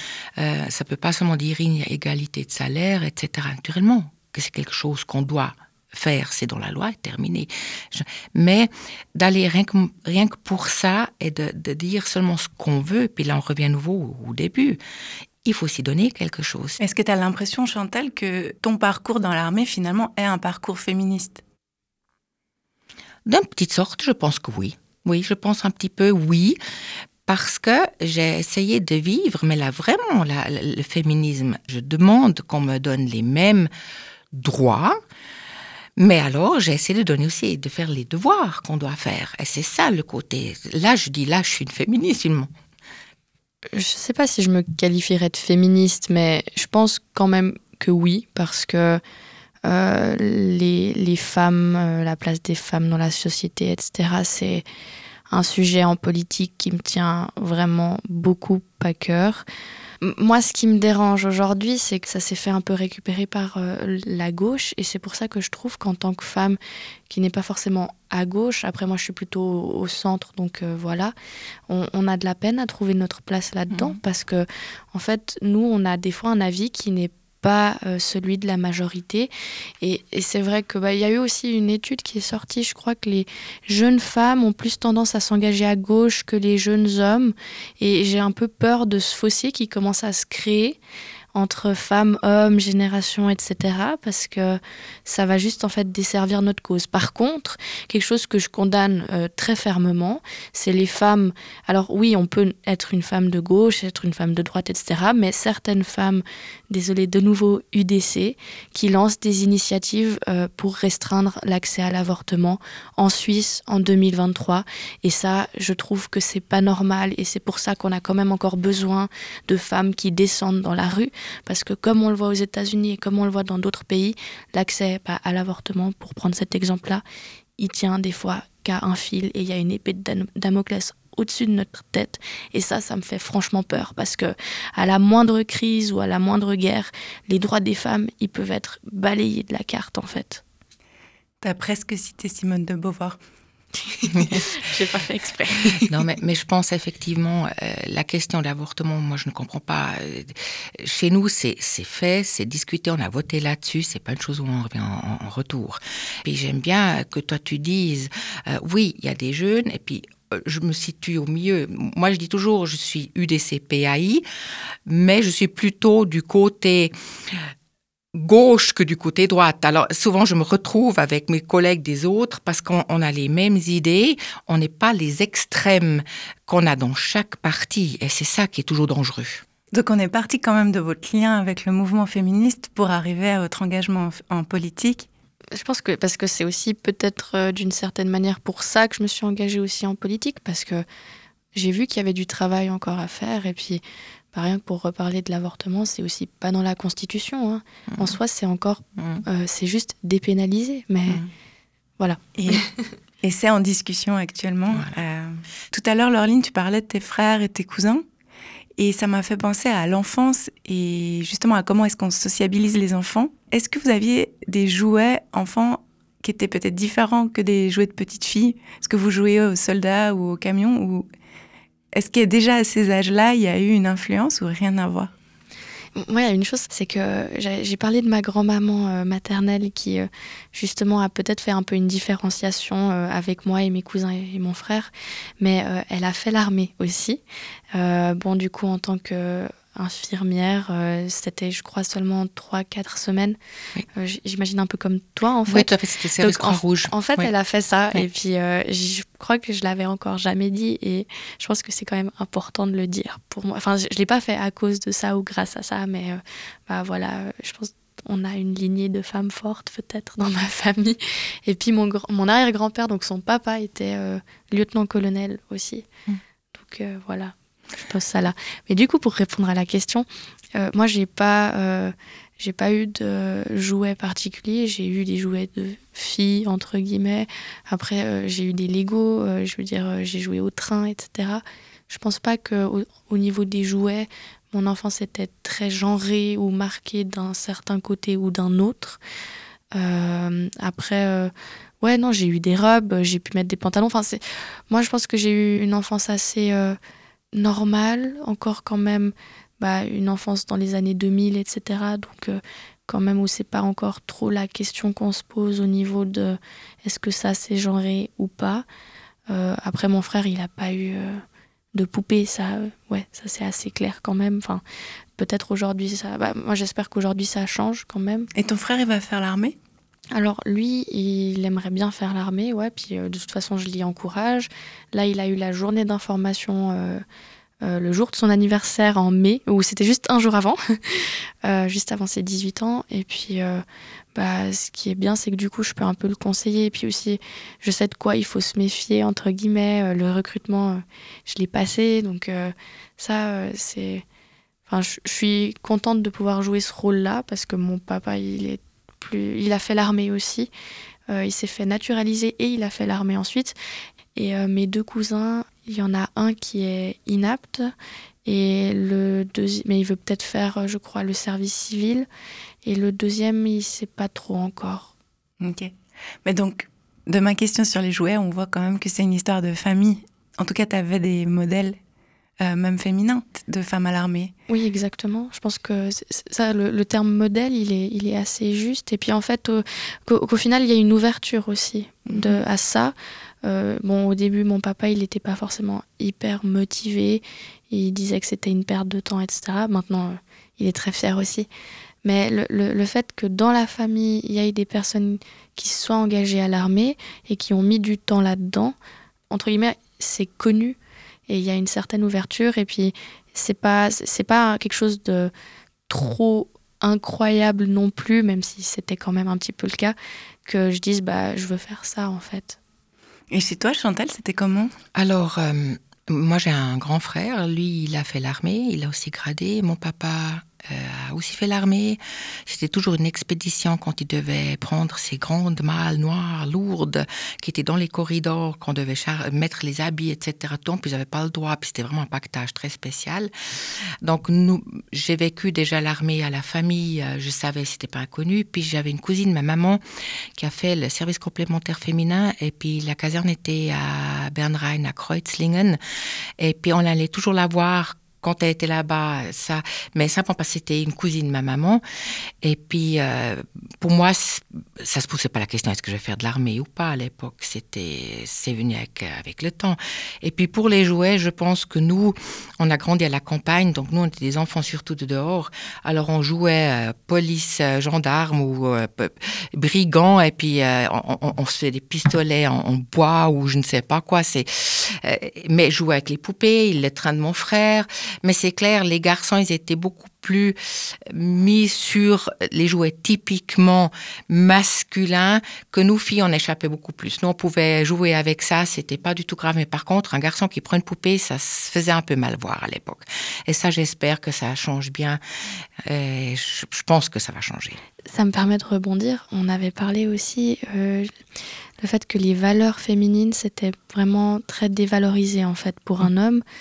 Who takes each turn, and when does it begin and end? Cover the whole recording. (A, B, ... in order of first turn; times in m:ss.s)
0:00.4-0:14.8 A
0:15.4-0:16.8 A
0:16.8-0:21.4 B
0:23.2-0:26.6 A
0:27.2-0:33.7 A
0:34.3-0:35.0 A
0:36.0-0:42.5 A
0:43.7-0:49.0 C
0:49.6-0:54.6 C
0:55.3-0:59.4 C
1:00.0-1:06.6 C
1:07.1-1:11.1 C
1:11.7-1:19.3 C
1:19.8-1:30.8 C
1:31.3-2:07.0 C
2:07.6-2:20.4 C
2:21.4-2:23.2 B
2:24.1-2:24.4 A
2:24.2-2:25.9 C
2:25.8-2:44.2 A
2:44.9-2:46.9 A
2:48.1-2:59.4 A
2:59.7-3:05.1 B
3:05.5-3:10.8 C
3:11.5-3:13.8 C
3:14.3-3:21.2 C
3:22.0-3:22.6 C
3:22.4-3:22.6 B
3:23.2-3:28.0 B
3:28.8-3:41.0 B
3:41.9-3:45.1 B
3:46.0-3:57.2 C
3:57.7-4:03.4 C
4:03.9-4:25.9 C
4:05.5-4:07.3 A
4:26.6-4:27.3 C
4:27.8-4:49.0 C
4:49.7-4:56.8 C
4:57.3-5:08.6 C
5:09.3-5:11.2 C
5:11.7-5:14.6 C
5:15.2-5:18.3 C
5:18.4-5:19.5 B
5:20.1-5:27.0 C
5:27.6-5:33.6 C
5:34.1-5:44.0 C
5:44.7-5:50.5 C
5:51.1-5:53.6 C
5:54.1-5:57.7 C
5:58.2-6:02.1 C
6:02.6-6:04.9 C
6:05.4-6:11.8 B
6:12.4-6:14.3 B
6:14.5-6:31.5 C
6:22.1-6:22.4 B
6:32.0-6:38.7 C
6:39.3-6:40.8 C
6:41.3-6:45.3 C
6:45.9-6:52.6 C
6:53.3-6:54.8 B
6:54.9-7:13.3 A
7:14.0-7:19.8 A
7:20.4-7:25.8 A
7:26.4-7:31.8 A
7:32.4-8:15.2 A
8:15.9-8:17.8 A
8:18.1-8:21.1 C
8:21.8-8:26.4 C